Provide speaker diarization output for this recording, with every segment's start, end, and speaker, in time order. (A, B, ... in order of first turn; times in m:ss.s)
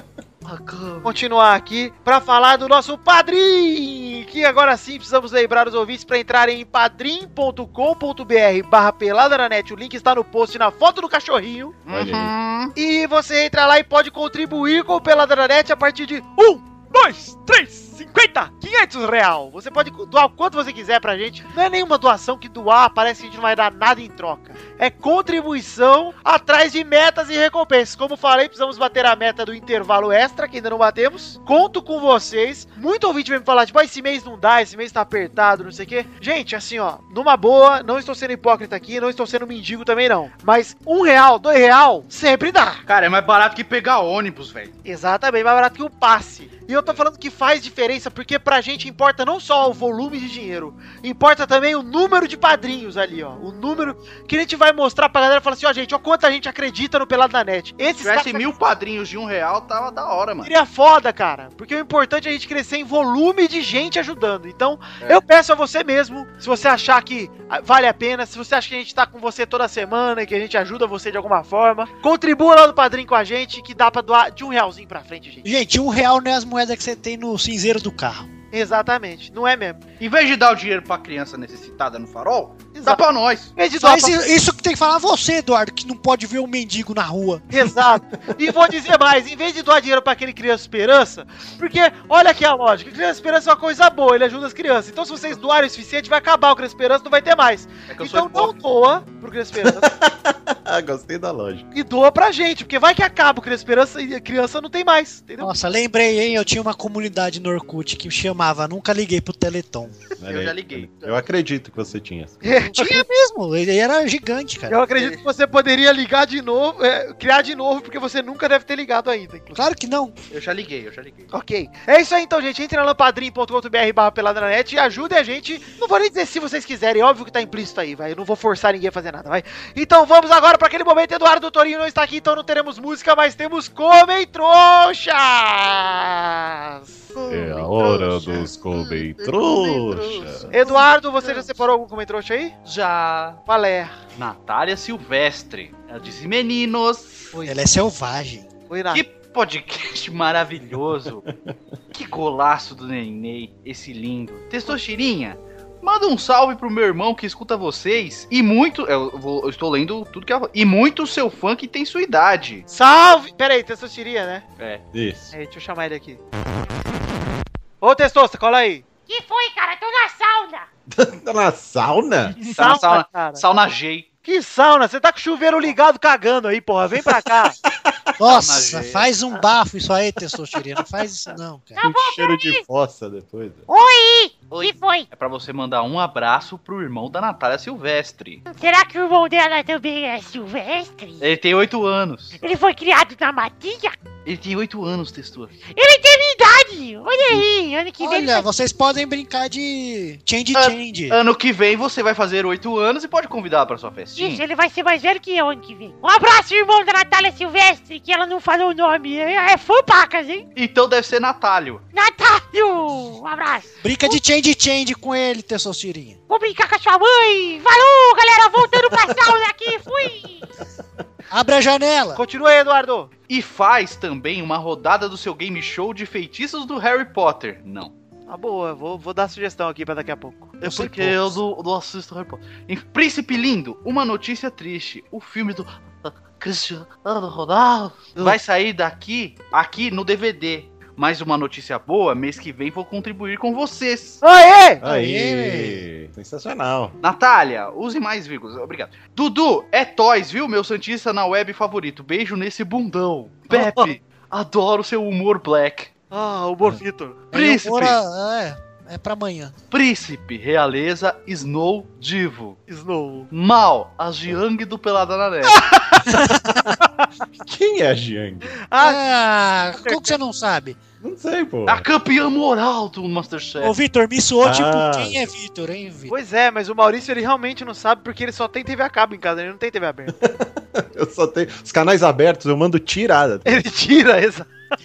0:00.4-0:01.2 A
0:01.0-0:11.7 B
0:11.8-0:12.7 A
0:11.9-0:12.3 C
0:12.8-0:42.8 B
0:42.8-0:44.7 A
0:44.8-0:58.5 B
0:58.0-1:00.5 A
1:00.4-1:15.5 B
1:15.4-1:18.3 D
1:18.5-1:19.8 B
1:20.0-1:23.5 A
1:22.7-1:23.0 B
1:23.6-1:24.2 B
1:23.8-1:27.5 D
1:27.5-1:39.9 B
1:37.9-1:38.5 A
1:39.6-1:41.6 C
1:41.7-1:45.5 B
1:45.4-1:50.0 D
1:50.2-1:52.4 C
1:50.3-1:51.2 A
1:52.4-1:53.0 B
1:52.7-1:54.8 D
1:54.7-1:59.7 B
1:59.6-2:00.1 D
2:00.3-2:01.3 A
2:01.3-2:16.9 B
2:17.1-2:21.5 A
2:17.3-2:20.5 C
2:20.5-2:22.5 B
2:22.6-2:23.4 A
2:23.5-2:23.9 B
2:24.1-2:27.3 A
2:27.4-2:28.5 D
2:28.7-2:29.0 B
2:28.9-2:31.2 A
2:31.9-2:42.6 A
2:42.7-2:44.4 B
2:44.6-2:44.8 A
2:44.9-2:45.3 C
2:45.3-2:46.2 B
2:47.8-2:48.8 B
2:49.1-2:50.7 E
2:50.9-2:52.4 C
2:52.4-2:53.4 B
2:52.4-2:54.1 A
2:54.2-2:57.6 B
2:57.7-2:58.0 C
2:58.2-3:01.8 D
2:58.2-2:59.1 A
3:01.8-3:02.6 E
3:01.8-3:03.7 C
3:03.7-3:05.1 E
3:04.5-3:08.4 A
3:08.5-3:11.2 E
3:11.2-3:12.4 A
3:12.4-3:14.0 E
3:14.2-3:15.6 A
3:15.7-3:18.5 E
3:18.0-3:21.2 D
3:20.5-3:24.4 A
3:24.2-3:30.4 E
3:30.6-3:31.8 A
3:31.9-3:34.2 E
3:33.8-3:36.2 D
3:36.3-3:40.5 E
3:41.3-3:42.2 D
3:42.1-3:43.1 B
3:43.3-3:47.9 A
3:48.3-3:51.4 B
3:50.6-4:04.2 A
4:04.2-4:04.8 B
4:04.8-4:05.8 D
4:04.8-4:06.9 C
4:07.0-4:15.9 A
4:13.5-4:13.9 B
4:16.1-4:17.9 B
4:17.3-4:19.5 D
4:17.4-4:17.9 A
4:19.7-4:22.6 A
4:22.7-4:23.3 B
4:23.3-4:25.8 A
4:26.1-4:26.6 D
4:27.4-4:28.5 C
4:28.6-4:29.0 B
4:28.8-4:30.8 D
4:29.7-4:30.2 B
4:31.0-4:31.8 C
4:31.7-4:33.8 A
4:33.6-4:36.1 D
4:34.4-4:35.3 C
4:36.1-4:40.1 B
4:40.2-4:43.6 C
4:43.4-4:44.5 B